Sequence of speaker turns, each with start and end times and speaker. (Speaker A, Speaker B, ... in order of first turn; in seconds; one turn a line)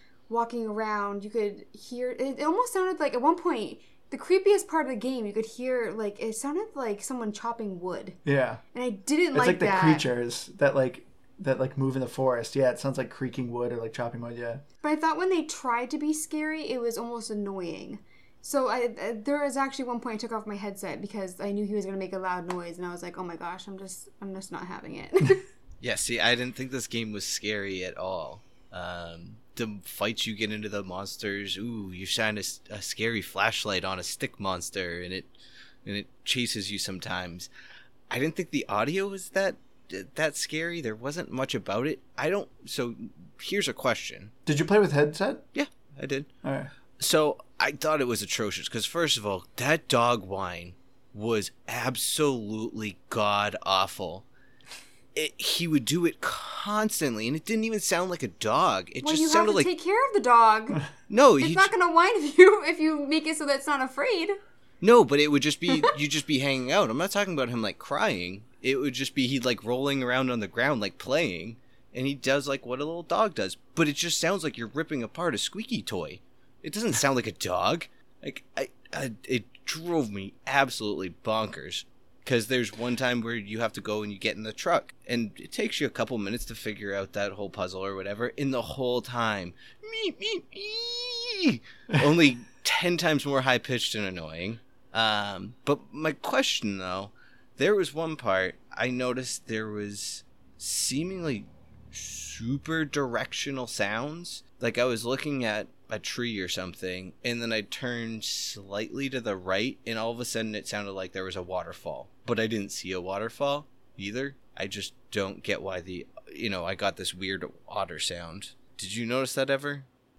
Speaker A: 0.3-8.2
Speaker B: 8.2-8.6
Speaker A: 8.7-10.1
Speaker B: 9.3-14.6
Speaker A: 14.8-25.4
Speaker C: 25.8-35.3
Speaker C: 35.8-37.5
Speaker C: 38.1-44.3
Speaker B: 44.5-45.4
Speaker C: 45.5-46.3
Speaker B: 46.4-46.7
Speaker C: 47.0-54.2
Speaker C: 55.1-59.7
Speaker A: 59.0-60.8
Speaker C: 61.1-61.7
Speaker A: 61.4-64.3
Speaker C: 64.8-119.9